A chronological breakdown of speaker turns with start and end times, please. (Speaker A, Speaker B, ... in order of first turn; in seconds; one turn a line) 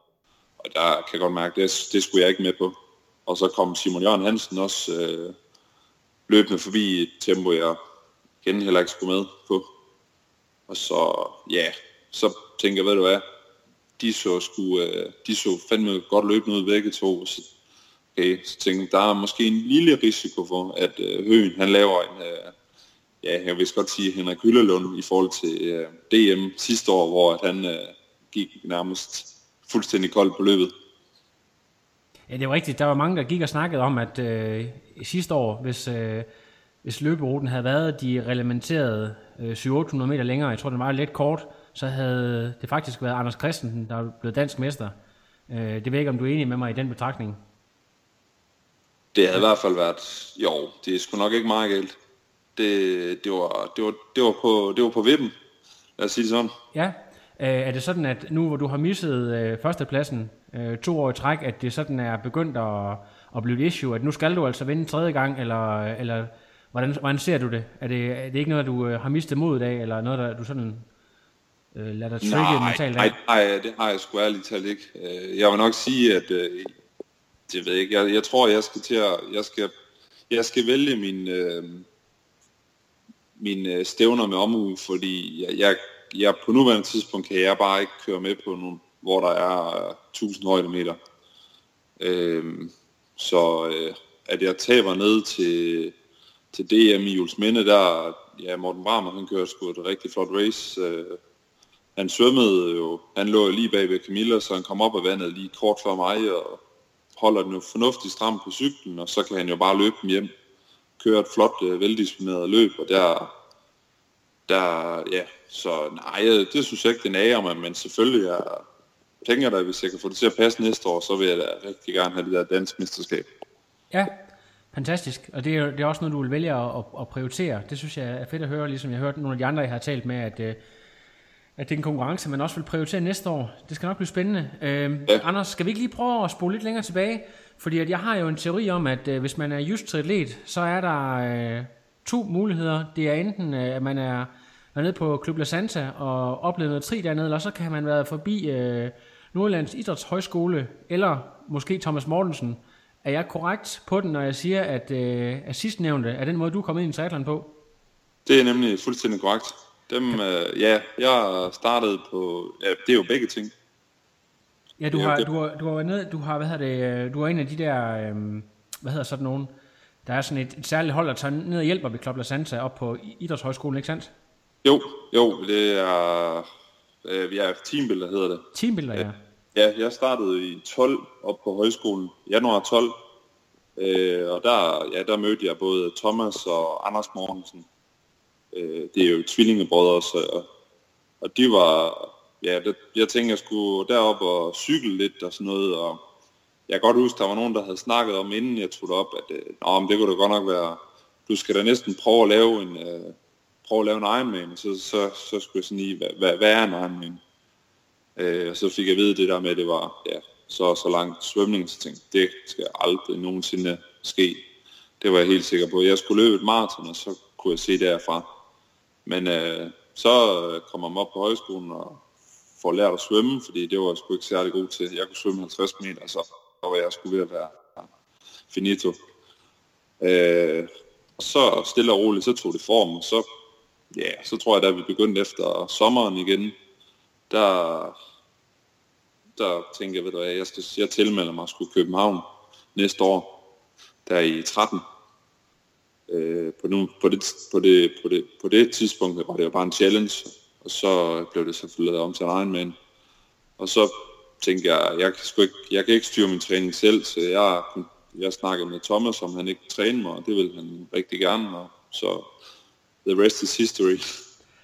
Speaker A: 0.6-2.8
Speaker A: 3.3-5.4
Speaker A: 6.3-7.8
Speaker A: 8.4-9.7
Speaker A: 10.7-13.2
Speaker A: 14.0-17.5
Speaker A: 18.1-22.6
Speaker A: 23.2-30.7
Speaker B: 32.3-36.3
Speaker B: 36.8-44.9
Speaker B: 45.5-47.4
Speaker A: 49.1-52.0
Speaker A: 52.6-55.3
Speaker A: 56.0-56.5
Speaker B: 56.7-70.9
Speaker B: 71.7-73.2
Speaker A: 72.2-76.8
Speaker A: 77.5-79.7
Speaker A: 80.3-81.9
Speaker A: 83.4-91.0
Speaker A: 92.0-96.0
Speaker A: 96.5-101.2
Speaker A: 102.0-106.6
Speaker A: 107.2-110.3
Speaker A: 111.0-113.3
Speaker A: 114.5-118.7
Speaker A: 119.2-123.3
Speaker B: 124.7-130.6
Speaker B: 131.6-157.6
Speaker A: 158.3-163.5
Speaker B: 164.8-169.5
Speaker A: 164.9-165.3
Speaker B: 170.1-174.1
Speaker A: 174.6-176.5
Speaker A: 177.1-183.0
Speaker B: 178.5-179.2
Speaker A: 183.8-187.7
Speaker A: 188.5-190.5
Speaker A: 191.2-196.0
Speaker A: 196.7-207.2
Speaker A: 208.2-214.5
Speaker A: 215.0-218.3
Speaker A: 219.1-222.0
Speaker A: 222.6-227.9
Speaker A: 228.5-229.0
Speaker A: 230.0-233.2
Speaker A: 233.9-236.6
Speaker A: 237.3-237.9
Speaker A: 239.4-243.4
Speaker A: 244.1-244.8
Speaker A: 246.1-252.8
Speaker A: 253.6-262.3
Speaker A: 263.0-264.0